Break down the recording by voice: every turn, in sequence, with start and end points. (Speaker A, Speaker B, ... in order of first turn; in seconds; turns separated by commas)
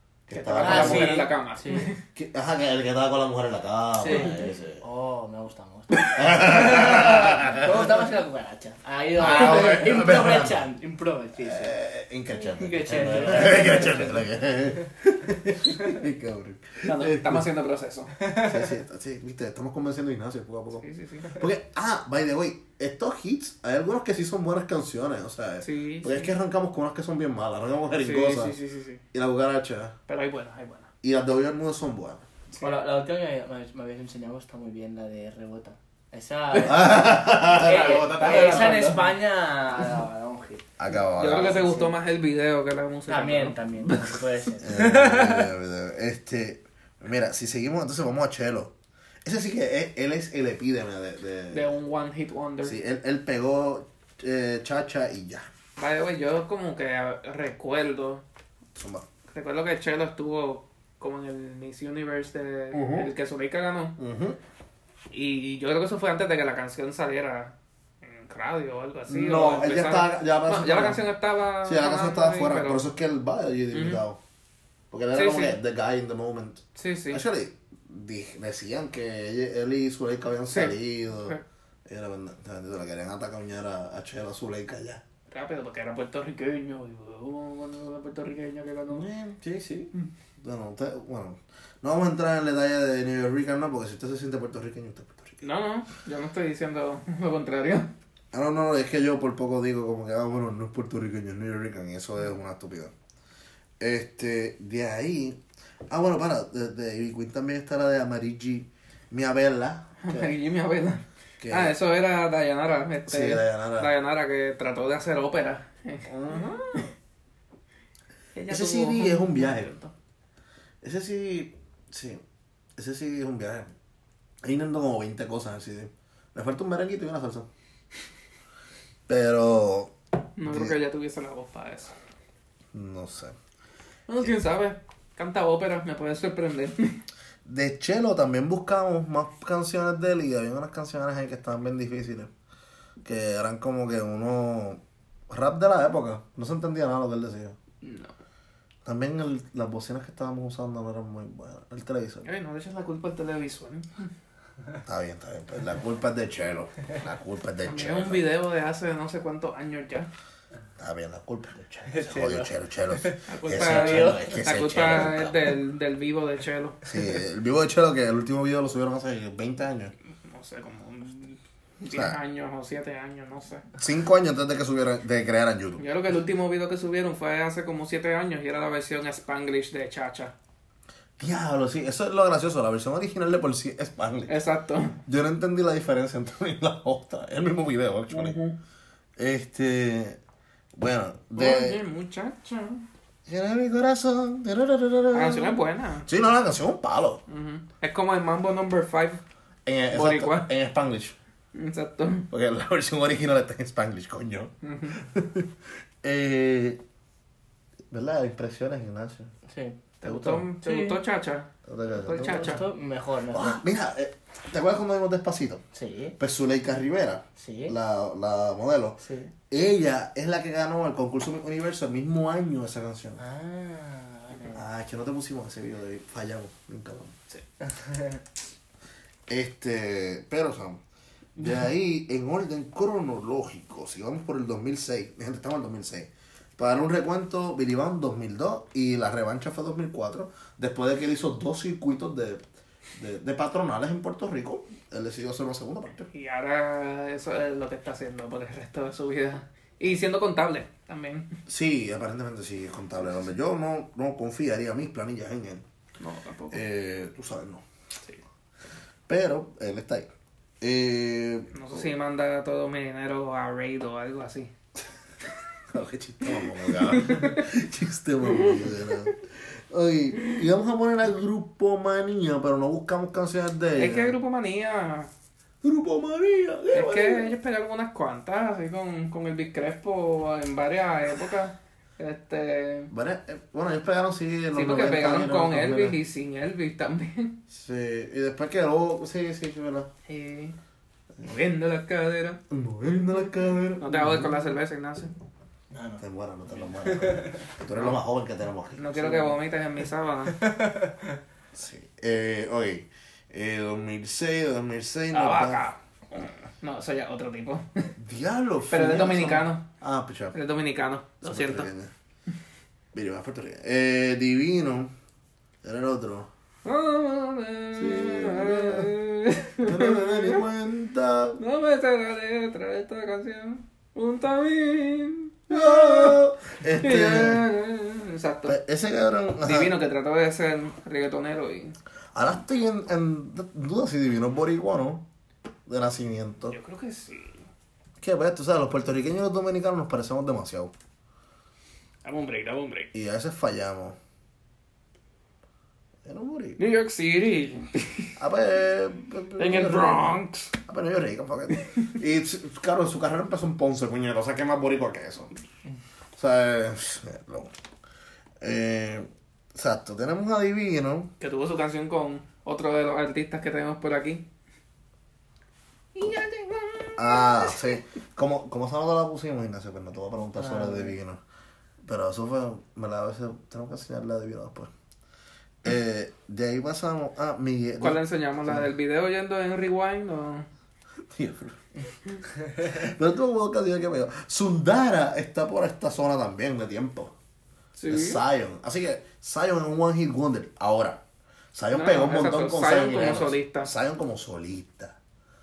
Speaker A: 0.3-1.3, Speaker B: 0.3-2.0, Speaker C: 0.6-1.9, Speaker A: 2.1-4.8, Speaker C: 4.0-11.8, Speaker A: 6.0-7.9, Speaker A: 9.2-10.6, Speaker A: 11.4-17.5, Speaker C: 12.5-14.2, Speaker B: 13.4-14.0, Speaker B: 16.8-18.1, Speaker C: 18.2-18.7, Speaker A: 18.4-28.6, Speaker B: 20.8-21.4, Speaker B: 25.6-26.3, Speaker B: 28.0-29.0, Speaker A: 29.1-29.9, Speaker B: 30.1-30.9, Speaker A: 31.0-32.3, Speaker B: 32.5-32.8, Speaker C: 32.6-40.7, Speaker A: 36.6-39.0, Speaker B: 37.5-39.1, Speaker A: 40.8-41.8, Speaker B: 41.2-44.2, Speaker C: 41.3-42.0, Speaker C: 43.1-45.5, Speaker A: 44.6-48.7, Speaker A: 49.2-51.8, Speaker B: 51.5-52.8, Speaker A: 52.6-55.5, Speaker B: 55.8-58.2, Speaker A: 58.8-59.1, Speaker B: 59.3-64.0, Speaker A: 62.7-63.1, Speaker A: 64.0-64.4, Speaker B: 65.1-72.8, Speaker A: 69.1-71.0, Speaker A: 71.6-74.2, Speaker B: 73.7-74.0, Speaker A: 74.9-85.0, Speaker B: 75.2-75.6, Speaker B: 76.8-77.2, Speaker B: 80.5-81.4, Speaker B: 85.3-89.1, Speaker A: 88.9-95.4, Speaker B: 95.4-97.9, Speaker A: 98.3-102.9, Speaker A: 103.8-110.3, Speaker B: 110.0-116.1, Speaker A: 111.4-111.8, Speaker A: 113.1-113.9, Speaker A: 116.1-116.9, Speaker B: 118.3-119.9, Speaker A: 118.5-119.7, Speaker A: 120.8-122.2, Speaker A: 122.8-123.7, Speaker A: 124.4-127.5, Speaker A: 129.1-129.9, Speaker B: 130.4-131.9, Speaker A: 130.4-130.8, Speaker A: 132.7-133.4, Speaker B: 134.1-137.0, Speaker A: 137.4-142.3, Speaker A: 143.0-147.6, Speaker B: 147.8-148.1, Speaker A: 148.8-152.3, Speaker B: 152.2-154.1, Speaker A: 154.9-158.3, Speaker B: 157.6-160.1, Speaker A: 160.8-165.5, Speaker C: 161.9-164.3, Speaker B: 163.3-166.8, Speaker A: 166.9-169.9, Speaker B: 170.2-173.7, Speaker A: 171.9-172.2, Speaker A: 173.8-175.8, Speaker B: 175.8-180.3, Speaker A: 181.2-184.3, Speaker B: 184.3-185.0, Speaker A: 185.1-188.4, Speaker B: 188.1-188.6, Speaker A: 189.2-190.2, Speaker A: 190.8-191.8, Speaker B: 191.4-192.8, Speaker A: 193.3-197.2, Speaker B: 195.1-196.1, Speaker B: 197.3-199.2, Speaker A: 199.7-201.2, Speaker B: 199.9-200.5, Speaker B: 201.5-202.3, Speaker A: 202.3-205.5, Speaker B: 204.6-205.0, Speaker A: 206.0-206.8, Speaker A: 207.9-209.3, Speaker C: 209.5-209.8, Speaker B: 210.0-212.7, Speaker A: 210.0-210.5, Speaker C: 210.6-211.0, Speaker A: 211.7-212.6, Speaker C: 212.1-213.6, Speaker A: 213.3-215.6, Speaker C: 215.7-216.2, Speaker A: 216.2-223.2, Speaker C: 217.4-217.8, Speaker C: 219.0-219.3, Speaker C: 223.2-224.6, Speaker A: 224.5-227.2, Speaker C: 227.6-228.2, Speaker A: 229.3-230.8, Speaker A: 231.4-242.4, Speaker A: 243.0-246.1, Speaker B: 246.1-251.4, Speaker A: 251.5-255.7, Speaker B: 256.0-256.6, Speaker A: 256.5-257.6, Speaker A: 259.1-260.1, Speaker A: 260.6-261.9, Speaker B: 261.5-264.5, Speaker A: 265.7-274.2, Speaker B: 266.8-267.4, Speaker B: 268.3-268.9, Speaker B: 273.8-275.1, Speaker A: 275.6-277.3, Speaker B: 276.7-282.9, Speaker A: 282.9-286.0, Speaker B: 284.5-287.4, Speaker A: 287.5-289.9, Speaker B: 290.1-290.6, Speaker B: 291.2-292.4, Speaker A: 292.5-294.4, Speaker B: 293.8-295.1, Speaker C: 295.7-296.0, Speaker A: 296.0-299.3, Speaker C: 296.8-297.4, Speaker B: 297.7-298.0, Speaker B: 298.8-300.4, Speaker C: 300.4-301.0, Speaker A: 301.5-305.6, Speaker B: 305.1-307.9, Speaker A: 308.0-310.4, Speaker B: 308.7-309.6, Speaker B: 310.3-311.7, Speaker A: 311.2-311.9, Speaker A: 312.9-314.9, Speaker A: 315.6-316.3, Speaker B: 316.6-320.4, Speaker A: 317.8-318.9, Speaker A: 319.7-321.4, Speaker B: 321.4-326.2, Speaker A: 325.5-327.5, Speaker B: 326.8-328.6, Speaker A: 328.5-329.8, Speaker B: 329.4-331.8, Speaker A: 332.1-335.1, Speaker A: 335.7-336.6, Speaker B: 336.5-337.4, Speaker A: 338.0-340.7, Speaker B: 342.0-342.9, Speaker A: 342.9-344.0, Speaker A: 346.1-346.6, Speaker B: 346.6-348.1, Speaker A: 348.2-350.2, Speaker B: 349.4-350.5, Speaker A: 350.7-355.3, Speaker B: 351.5-351.8, Speaker A: 356.2-357.5, Speaker A: 358.4-361.1, Speaker B: 361.2-364.2, Speaker B: 365.9-367.8, Speaker A: 367.0-371.2, Speaker C: 370.4-371.0, Speaker A: 371.9-374.7, Speaker A: 375.6-378.7, Speaker B: 377.8-380.5, Speaker A: 381.1-381.6, Speaker A: 382.5-387.1, Speaker B: 387.8-388.2, Speaker A: 387.9-391.0, Speaker A: 391.5-395.0, Speaker B: 391.7-393.7